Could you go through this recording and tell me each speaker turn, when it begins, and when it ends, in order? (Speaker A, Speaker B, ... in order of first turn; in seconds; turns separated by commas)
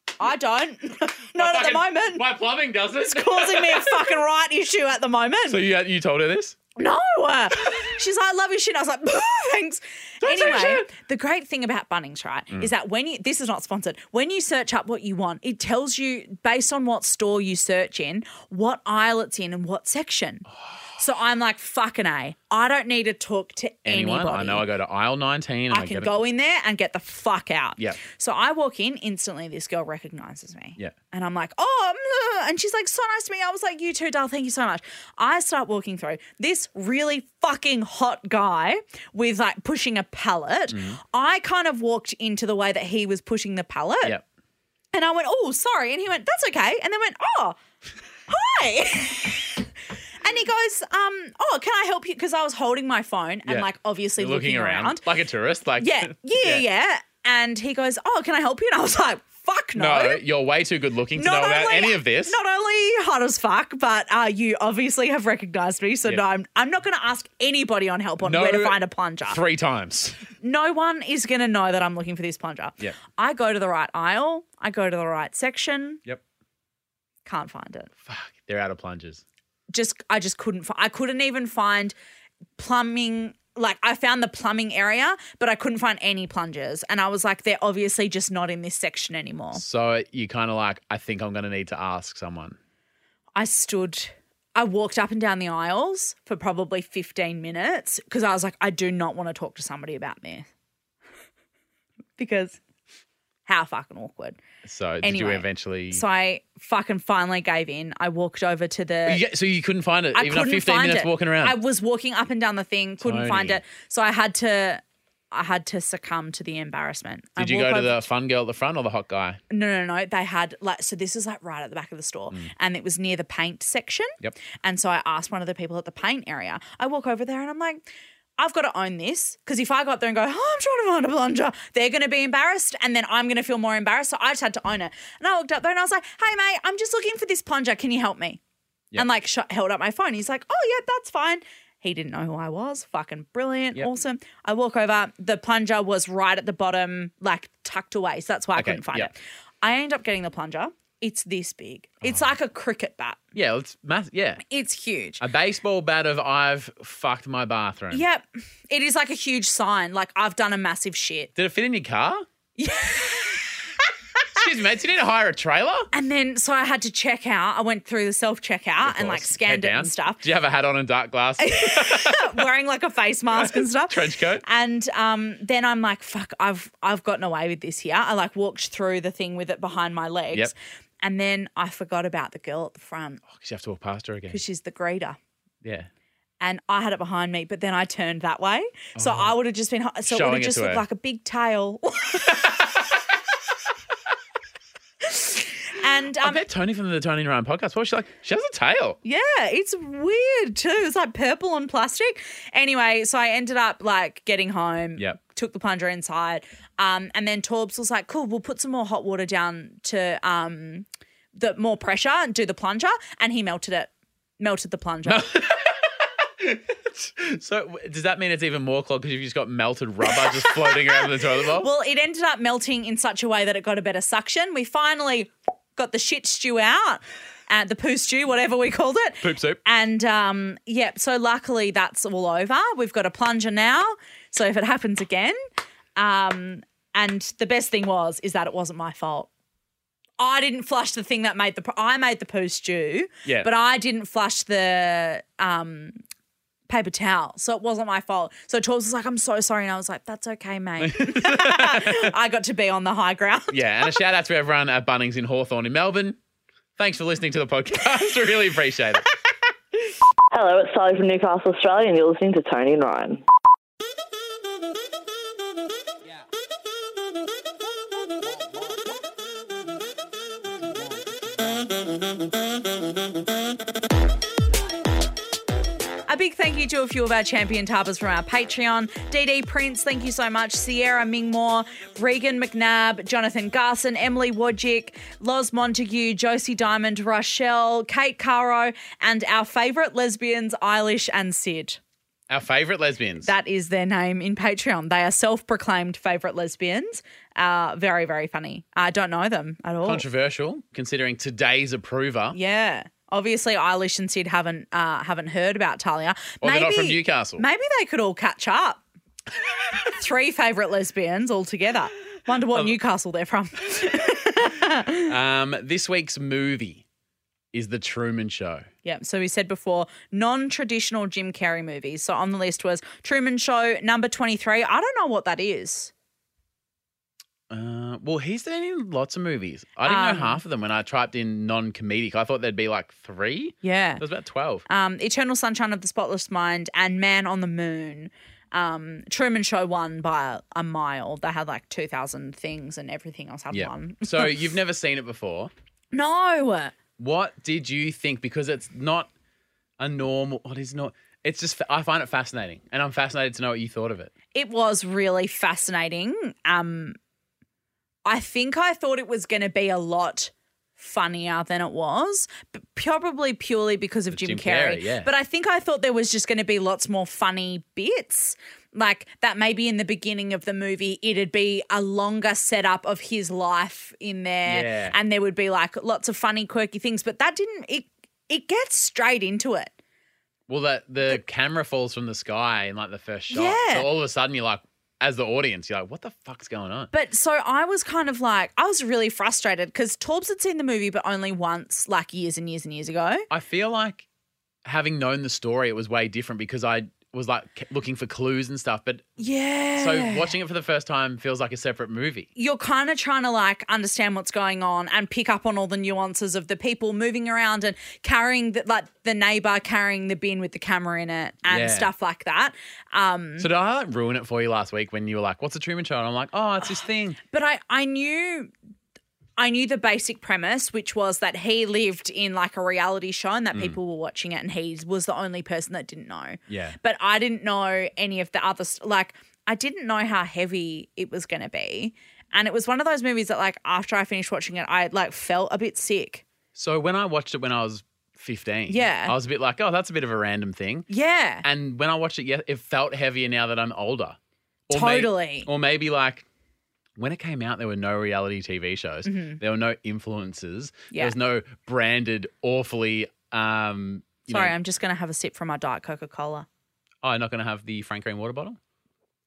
Speaker A: 0.2-2.3, Speaker B: 1.4-4.2, Speaker A: 3.1-5.6, Speaker B: 5.5-6.6, Speaker A: 6.8-24.7, Speaker B: 10.2-10.9, Speaker B: 23.9-26.1, Speaker A: 25.7-44.2, Speaker B: 40.7-41.0, Speaker A: 44.9-47.6, Speaker A: 48.3-49.7, Speaker A: 50.2-55.0, Speaker B: 53.5-56.6, Speaker A: 55.8-60.2, Speaker B: 59.8-62.4, Speaker A: 61.2-69.4, Speaker B: 68.2-70.3, Speaker A: 70.4-76.0, Speaker A: 77.3-77.9, Speaker B: 78.0-79.2, Speaker A: 79.7-82.0, Speaker A: 82.6-89.6, Speaker B: 89.5-92.6, Speaker A: 93.4-100.5, Speaker A: 102.2-102.6, Speaker A: 103.5-104.4, Speaker B: 104.6-106.0, Speaker A: 105.0-109.2, Speaker B: 109.0-111.6, Speaker A: 110.1-118.0, Speaker B: 113.0-113.6, Speaker B: 117.4-119.4, Speaker A: 119.5-127.8, Speaker A: 128.4-138.4, Speaker A: 138.9-153.2, Speaker B: 148.6-149.1, Speaker B: 153.3-154.4, Speaker A: 154.5-155.2, Speaker B: 155.2-158.0, Speaker A: 157.9-161.3, Speaker B: 161.3-162.3, Speaker A: 162.6-163.7, Speaker B: 164.3-165.9, Speaker A: 165.9-170.2, Speaker B: 168.8-172.5, Speaker A: 171.4-183.2, Speaker B: 173.4-174.4, Speaker B: 183.3-184.4, Speaker A: 184.3-185.2, Speaker B: 185.6-185.9, Speaker A: 186.4-192.5, Speaker B: 189.0-189.3, Speaker B: 190.1-190.8, Speaker A: 195.0-196.4, Speaker B: 196.2-199.0, Speaker A: 199.0-215.3, Speaker B: 215.1-221.7, Speaker A: 220.1-235.4, Speaker B: 229.2-229.6, Speaker A: 236.0-239.3, Speaker A: 240.2-246.0, Speaker B: 243.2-243.5, Speaker A: 246.7-254.0, Speaker B: 250.8-252.1, Speaker B: 253.5-256.2, Speaker B: 256.8-259.1, Speaker C: 260.3-263.2, Speaker A: 276.1-291.8, Speaker B: 292.3-293.3, Speaker A: 293.2-300.0, Speaker B: 299.9-302.4, Speaker A: 302.3-308.8, Speaker B: 306.4-307.4, Speaker A: 309.8-315.1, Speaker B: 315.0-316.9, Speaker B: 317.5-318.7, Speaker A: 318.8-325.9, Speaker B: 327.5-334.6, Speaker A: 329.8-330.4, Speaker A: 333.6-334.0, Speaker A: 334.7-344.4, Speaker B: 343.5-345.5, Speaker A: 345.9-346.8, Speaker B: 347.0-349.1, Speaker B: 349.8-354.1, Speaker A: 354.3-357.0, Speaker A: 358.1-379.7, Speaker B: 364.1-365.1, Speaker B: 374.5-375.0, Speaker B: 380.5-386.9, Speaker A: 383.3-383.9, Speaker A: 386.9-393.3, Speaker B: 393.3-394.1, Speaker B: 394.6-399.2, Speaker A: 399.2-400.3, Speaker B: 399.8-402.3, Speaker A: 402.4-413.5, Speaker B: 411.5-411.9, Speaker B: 413.4-417.2, Speaker A: 417.2-418.5, Speaker A: 419.4-436.2, Speaker B: 426.5-426.8, Speaker B: 436.5-440.9, Speaker A: 438.7-439.1, Speaker A: 440.9-441.4, Speaker B: 441.4-444.2, Speaker B: 444.7-446.2, Speaker A: 444.7-445.5, Speaker B: 447.0-454.6, Speaker A: 449.1-449.4, Speaker A: 454.3-456.5, Speaker B: 457.0-458.6